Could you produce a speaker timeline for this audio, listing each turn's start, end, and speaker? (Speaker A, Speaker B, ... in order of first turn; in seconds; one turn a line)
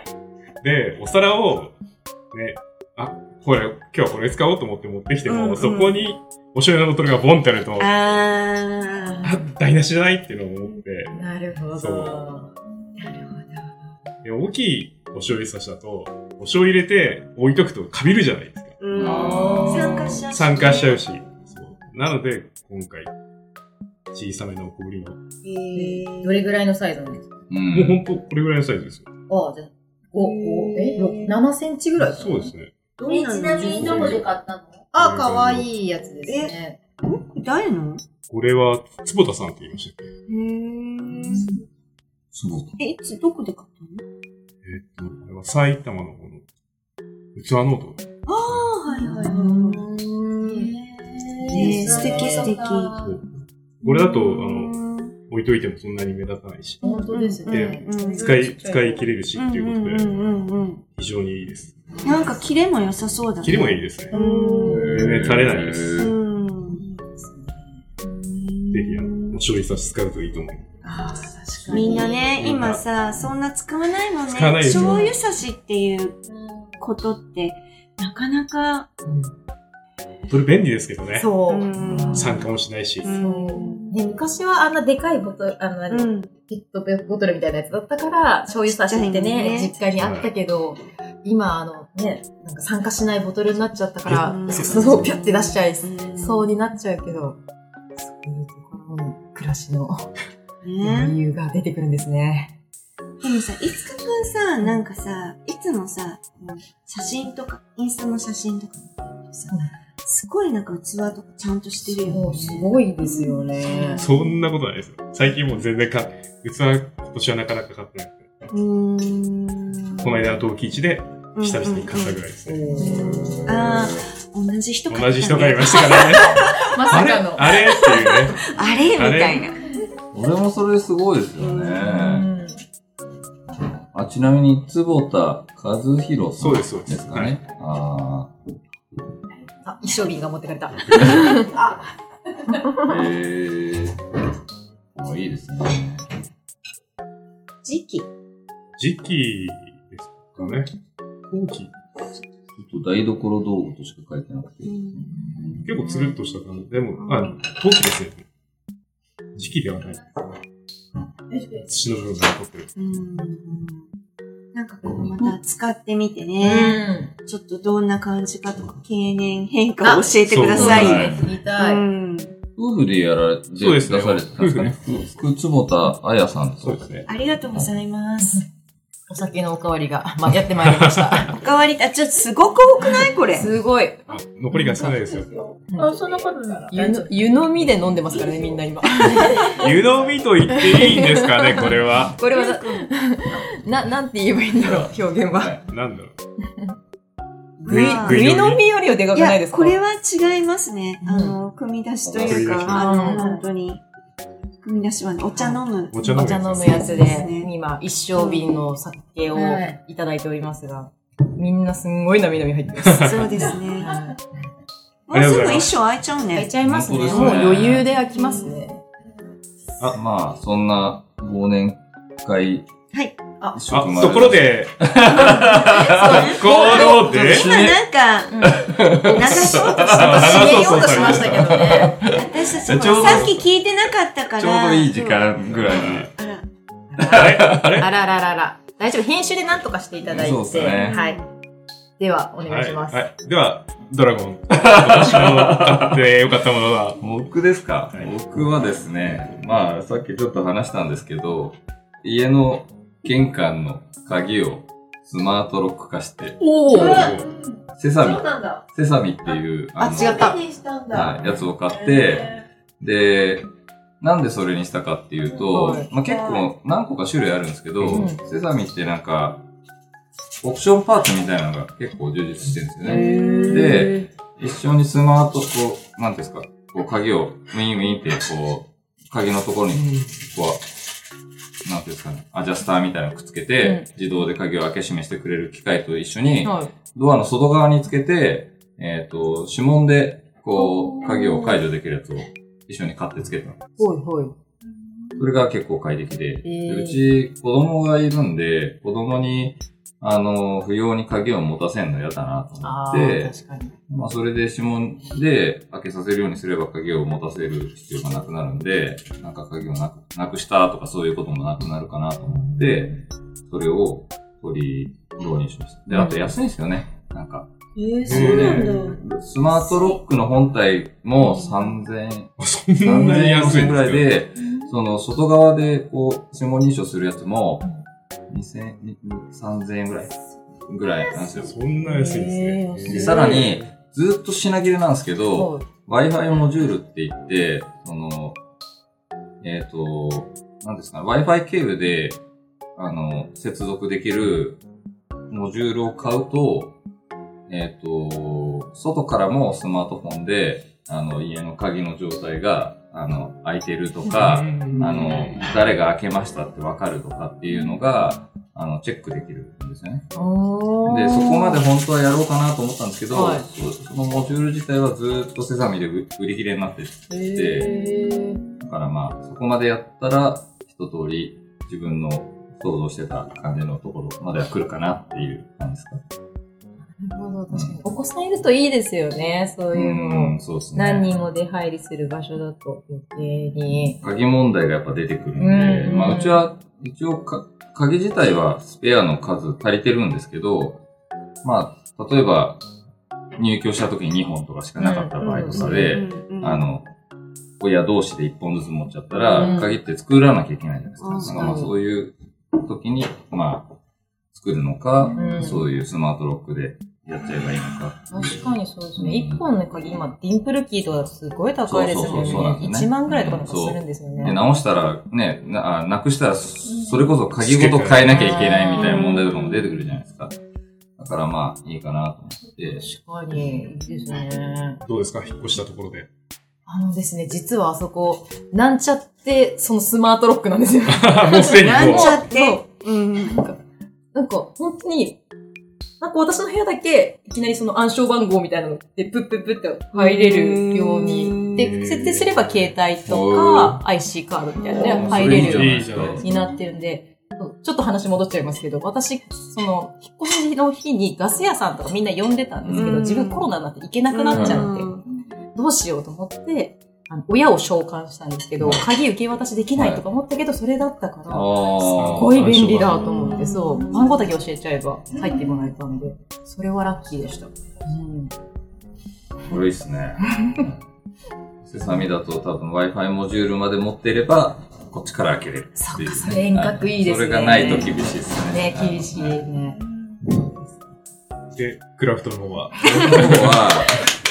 Speaker A: 0.6-1.7
Speaker A: 2.3-8.0
Speaker B: 5.3-6.0
Speaker B: 7.8-9.2
Speaker C: 9.0-9.5
Speaker A: 9.2-11.2
Speaker C: 11.1-12.5
Speaker A: 11.8-12.4
Speaker B: 13.0-13.4
Speaker A: 14.2-18.8
Speaker B: 18.8-21.0
Speaker D: 18.9-20.2
Speaker C: 18.9-20.2
Speaker A: 20.2-23.1
Speaker A: 24.1-25.2
Speaker B: 25.4-26.5
Speaker C: 25.7-27.3
Speaker D: 27.5-28.0
Speaker A: 27.7-29.1
Speaker C: 29.3-32.5
Speaker B: 30.1-31.4
Speaker A: 32.0-32.7
Speaker B: 33.0-34.2
Speaker E: 33.0-34.9
Speaker C: 33.5-34.2
Speaker C: 34.9-36.8
Speaker A: 35.0-35.7
Speaker B: 36.3-38.0
Speaker A: 38.3-40.1
Speaker B: 40.3-41.5
Speaker C: 41.2-41.6
Speaker D: 42.3-42.8
Speaker B: 42.8-44.0
Speaker A: 44.6-46.4
Speaker A: 47.4-48.6
Speaker B: 48.3-49.9
Speaker E: 48.9-49.4
Speaker C: 49.0-50.8
Speaker E: 50.4-53.1
Speaker C: 51.3-52.5
Speaker B: 51.5-53.1
Speaker A: 53.0-53.3
Speaker A: 53.8-60.1
Speaker B: 53.9-55.2
Speaker C: 56.8-59.1
Speaker B: 57.1-58.3
Speaker B: 59.4-60.8
Speaker A: 60.9-62.3
Speaker B: 62.0-65.0
Speaker A: 63.4-64.2
Speaker C: 64.1-64.5
Speaker D: 64.6-66.1
Speaker A: 64.8-66.0
Speaker B: 66.0-66.8
Speaker C: 66.7-67.7
Speaker B: 68.0-69.4
Speaker A: 68.7-70.7
Speaker C: 70.8-72.2
Speaker E: 71.6-72.3
Speaker B: 71.7-76.2
Speaker A: 72.4-72.8
Speaker A: 74.3-75.1
Speaker C: 74.7-75.1
Speaker E: 76.4-76.7
Speaker B: 76.8-78.9
Speaker C: 79.0-79.3
Speaker A: 80.3-81.3
Speaker C: 81.1-81.7
Speaker B: 81.4-82.4
Speaker D: 81.8-82.4
Speaker A: 82.1-83.2
Speaker B: 83.0-83.9
Speaker C: 83.1-97.4
Speaker B: 85.9-86.3
Speaker B: 88.7-89.8
Speaker A: 90.0-90.3
Speaker A: 94.1-95.2
Speaker B: 94.1-96.5
Speaker C: 98.0-100.1
Speaker B: 100.6-101.2
Speaker C: 100.8-102.5
Speaker B: 103.2-114.4
Speaker C: 111.9-114.0
Speaker A: 114.0-118.3
Speaker B: 118.5-120.2
Speaker A: 120.0-122.8
Speaker B: 121.4-122.2
Speaker C: 122.5-123.6
Speaker B: 122.8-126.7
Speaker A: 124.9-129.5
Speaker C: 126.7-127.6
Speaker B: 127.4-129.7
Speaker D: 130.1-132.3
Speaker B: 131.4-132.0
Speaker C: 131.9-132.6
Speaker D: 133.9-138.3
Speaker A: 136.4-137.4
Speaker C: 139.6-141.7
Speaker D: 142.8-144.0
Speaker D: 144.9-146.1
Speaker B: 147.6-148.1
Speaker A: 148.8-150.7
Speaker A: 151.3-151.7
Speaker D: 152.6-155.7
Speaker B: 154.7-155.2
Speaker C: 155.5-156.1
Speaker A: 155.6-158.2
Speaker B: 157.1-157.4
Speaker A: 159.4-160.3
Speaker E: 161.3-161.6
Speaker A: 161.6-162.7
Speaker B: 162.8-163.9
Speaker B: 164.5-172.4
Speaker C: 166.4-167.1
Speaker C: 169.8-171.8
Speaker A: 170.3-171.0
Speaker D: 170.5-171.4
Speaker D: 172.6-176.9
Speaker A: 173.6-175.1
Speaker A: 176.6-177.1
Speaker B: 177.1-178.4
Speaker C: 179.1-181.4
Speaker A: 180.7-181.3
Speaker B: 181.3-183.5
Speaker C: 182.8-184.9
Speaker A: 184.1-185.4
Speaker E: 185.1-187.1
Speaker C: 185.7-186.0
Speaker C: 186.7-189.7
Speaker A: 189.5-192.2
Speaker C: 190.6-195.5
Speaker B: 192.2-192.9
Speaker D: 194.6-195.6
Speaker A: 195.7-196.1
Speaker C: 196.5-196.7
Speaker C: 197.6-199.8
Speaker B: 197.6-198.3
Speaker A: 197.7-198.6
Speaker B: 199.1-203.8
Speaker C: 201.0-201.4
Speaker D: 202.1-202.5
Speaker A: 202.2-203.0
Speaker C: 202.7-203.4
Speaker E: 203.1-203.4
Speaker B: 204.6-207.5
Speaker C: 205.3-214.2
Speaker A: 205.9-207.0
Speaker B: 208.2-208.5
Speaker E: 209.3-209.8
Speaker A: 212.8-213.3
Speaker B: 212.9-213.9
Speaker B: 215.1-216.5
Speaker A: 215.1-215.7
Speaker C: 216.3-218.8
Speaker D: 216.6-217.9
Speaker D: 219.9-222.7
Speaker B: 222.9-223.2
Speaker D: 223.5-227.8
Speaker A: 223.7-227.5
Speaker B: 225.2-231.2
Speaker C: 225.7-226.8
Speaker C: 228.3-232.0
Speaker D: 228.5-230.5
Speaker A: 229.9-231.7
Speaker D: 231.0-233.4
Speaker B: 232.1-235.3
Speaker A: 232.7-233.4
Speaker D: 234.4-236.1
Speaker A: 235.4-236.1
Speaker B: 236.1-236.5
Speaker C: 236.9-241.2
Speaker D: 237.0-237.8
Speaker A: 237.1-237.9
Speaker D: 240.1-241.0
Speaker B: 240.7-241.3
Speaker C: 242.0-243.1
Speaker A: 242.5-247.0
Speaker D: 244.6-246.0
Speaker D: 247.0-257.2
Speaker C: 256.4-257.2
Speaker E: 256.7-258.6
Speaker A: 256.7-257.3
Speaker D: 257.8-260.4
Speaker C: 259.8-260.4
Speaker E: 259.9-262.4
Speaker D: 260.9-263.5
Speaker D: 264.0-269.4
Speaker E: 265.3-266.5
Speaker C: 265.5-265.9
Speaker C: 267.9-268.2
Speaker D: 270.4-280.7
Speaker C: 272.8-274.1
Speaker B: 272.9-273.7
Speaker D: 281.6-293.8
Speaker C: 283.6-283.9
Speaker C: 286.4-286.7
Speaker C: 290.6-291.6
Speaker C: 293.8-294.4
Speaker D: 295.2-303.4
Speaker C: 296.4-297.0
Speaker C: 302.6-303.8
Speaker D: 303.9-317.5
Speaker C: 315.9-316.2
Speaker C: 317.9-318.9
Speaker A: 318.1-318.9
Speaker D: 318.1-327.7
Speaker A: 322.4-324.1
Speaker D: 328.3-330.1
Speaker D: 330.7-331.5
Speaker A: 331.4-333.7
Speaker C: 331.8-333.5
Speaker D: 332.9-338.4
Speaker C: 335.3-335.7
Speaker D: 339.4-342.2
Speaker D: 342.8-344.6
Speaker D: 345.3-346.8
Speaker D: 347.5-360.1
Speaker A: 354.1-355.5
Speaker C: 360.1-361.6
Speaker D: 360.9-367.7
Speaker C: 363.1-363.5
Speaker C: 367.1-368.4
Speaker D: 368.6-376.0
Speaker C: 376.9-384.0
Speaker D: 377.5-377.8
Speaker D: 379.7-381.1
Speaker D: 384.0-390.8
Speaker C: 385.4-386.4
Speaker D: 391.4-392.6
Speaker D: 393.4-396.9
Speaker C: 394.8-396.0
Speaker B: 395.2-396.6
Speaker D: 397.6-403.7
Speaker C: 399.2-399.7
Speaker B: 401.0-401.6
Speaker C: 401.2-401.7
Speaker D: 404.3-409.4
Speaker C: 405.2-405.6
Speaker C: 408.1-414.4
Speaker D: 411.6-420.4
Speaker A: 417.4-418.3
Speaker C: 418.0-419.8
Speaker D: 421.0-422.9
Speaker C: 422.8-424.8
Speaker A: 424.8-426.1
Speaker C: 426.7-432.7
Speaker A: 430.9-432.2
Speaker B: 431.6-433.4
Speaker C: 433.2-433.6
Speaker C: 434.1-435.2
Speaker C: 436.0-454.9
Speaker B: 439.9-441.8
Speaker A: 441.5-442.5
Speaker D: 443.1-443.8
Speaker B: 444.7-445.0
Speaker D: 444.8-446.2
Speaker A: 445.0-446.3
Speaker D: 452.6-453.0
Speaker B: 452.7-453.5
Speaker B: 454.1-455.0
Speaker D: 454.3-454.7
Speaker C: 455.6-468.3
Speaker D: 459.8-460.1
Speaker D: 461.3-462.6
Speaker A: 461.8-463.2
Speaker B: 463.2-464.0
Speaker D: 469.5-470.8
Speaker C: 470.4-470.7
Speaker D: 471.6-479.5
Speaker C: 475.8-480.9
Speaker A: 481.5-483.6
Speaker D: 482.8-484.0